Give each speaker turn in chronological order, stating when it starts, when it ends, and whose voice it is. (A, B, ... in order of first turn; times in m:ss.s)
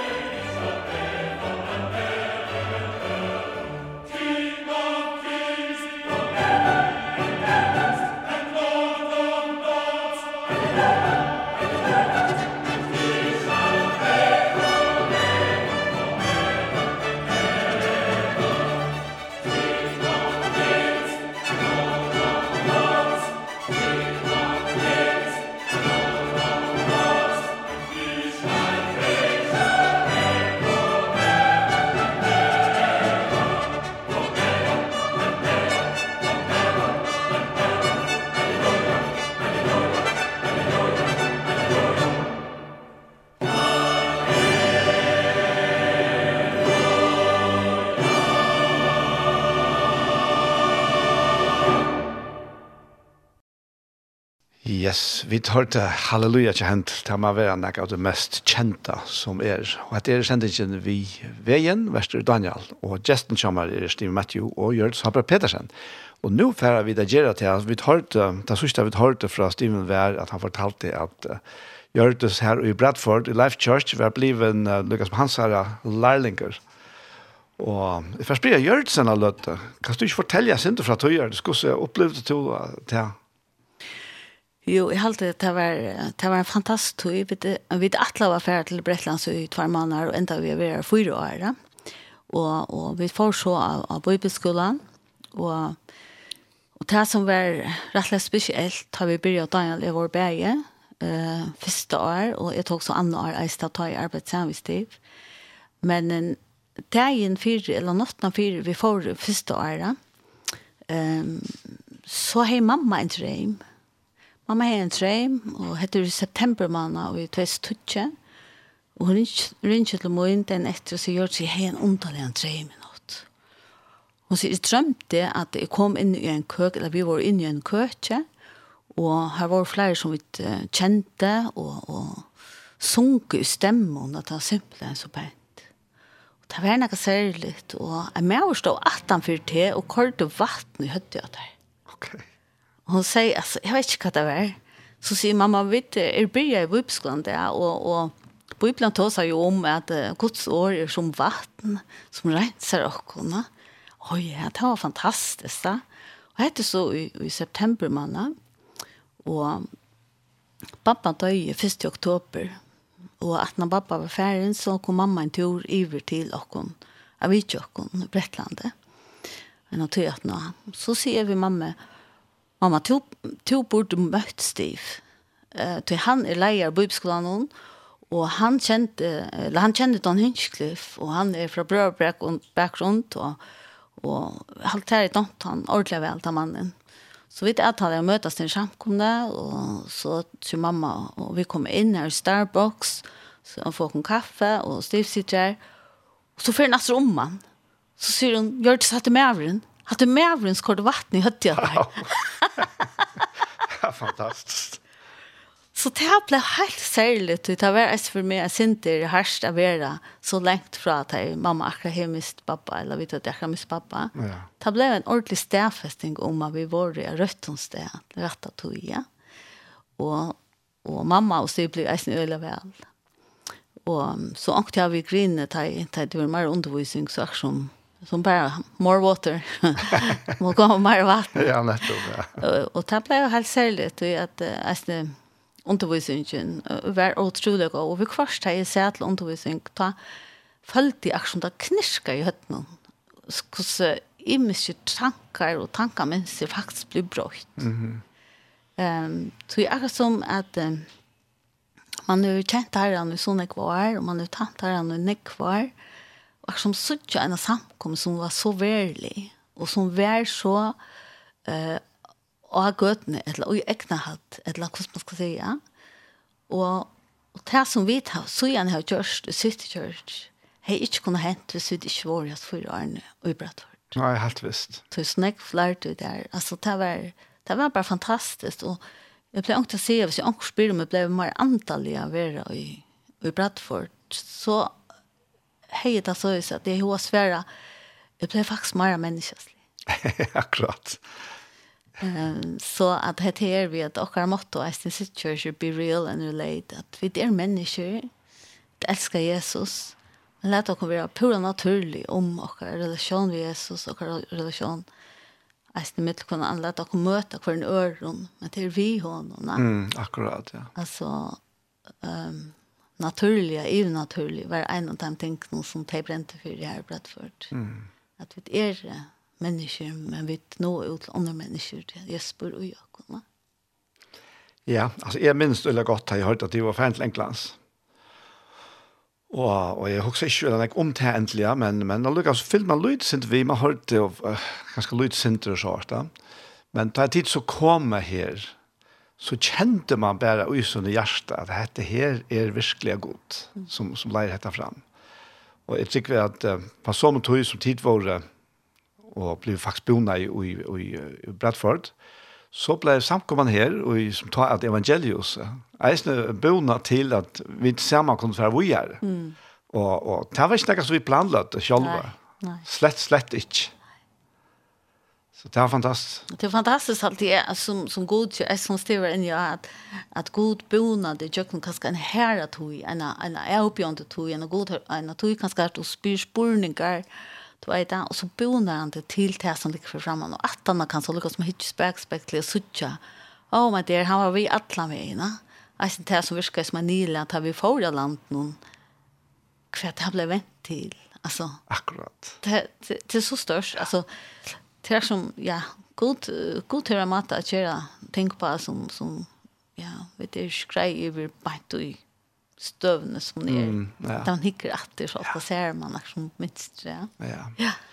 0:54.6-1:05.7 A
1:06.2-1:11.4 A
1:11.9-1:16.6 A
1:17.6-1:23.2 A
1:24.6-1:31.5 B
1:32.3-1:34.8 B
1:35.3-1:35.8 B
1:36.8-1:45.0 B
1:45.8-1:46.4 B
1:46.9-1:50.0 B
1:50.9-1:53.6 B
1:54.5-1:58.1 B
1:59.0-2:03.2 B
2:04.3-2:08.2 B
2:08.9-2:12.3 B
2:12.8-2:15.6 B
2:16.5-2:21.5 B
2:21.9-2:22.2 A
2:22.9-2:33.5 B
2:34.0-2:35.8 B
2:36.4-2:38.3 B
2:39.2-2:39.7 B
2:40.8-2:42.6 B
2:43.2-2:48.7 B
2:49.7-2:51.8 B
2:52.6-2:55.0 B
2:55.5-2:57.5 B
2:58.1-3:03.4 B
3:04.0-3:06.7 B
3:07.3-3:15.6 B
3:16.4-3:17.4 B
3:18.0-3:22.6 B
3:21.5-3:22.7 A
3:23.7-3:24.8 A
3:25.7-3:39.0 B
3:34.2-3:34.5 A
3:40.0-3:42.8 B
3:43.8-3:51.5 B
3:51.3-3:52.4 A
3:52.4-4:00.0 B
4:00.6-4:02.7 B
4:03.2-4:07.7 B
4:07.6-4:08.0 A
4:08.8-4:10.9 B
4:12.1-4:15.7 B
4:16.4-4:20.8 B
4:21.4-4:21.8 B
4:22.5-4:25.6 B
4:26.5-4:33.9 B
4:33.9-4:34.8 A
4:34.9-4:38.8 B
4:39.3-4:44.7 B
4:45.7-4:47.4 B
4:48.2-4:49.6 B
4:49.9-4:51.0 A
4:52.0-4:58.1 B
4:58.8-5:04.8 B
5:05.7-5:09.6 B
5:09.6-5:10.7 A
5:10.7-5:11.4 B
5:12.0-5:17.5 B
5:17.5-5:17.9 A
5:18.2-5:23.2 B
5:24.6-5:27.6 A
5:29.3-5:36.1 A
5:36.7-5:38.5 A
5:39.2-5:44.8 A
5:45.7-5:48.2 A
5:49.1-5:51.9 A
5:52.5-5:59.0 A
5:59.0-5:59.4 B
5:59.7-6:03.7 A
6:01.8-6:02.6 B
6:05.4-6:06.2 A
6:06.3-6:17.0 B
6:17.6-6:23.0 B
6:23.5-6:28.6 B
6:29.7-6:31.6 B
6:31.7-6:32.4 A
6:32.4-6:34.0 B
6:34.8-6:42.0 B
6:42.6-6:47.8 B
6:43.5-6:44.3 A
6:47.2-6:47.5 A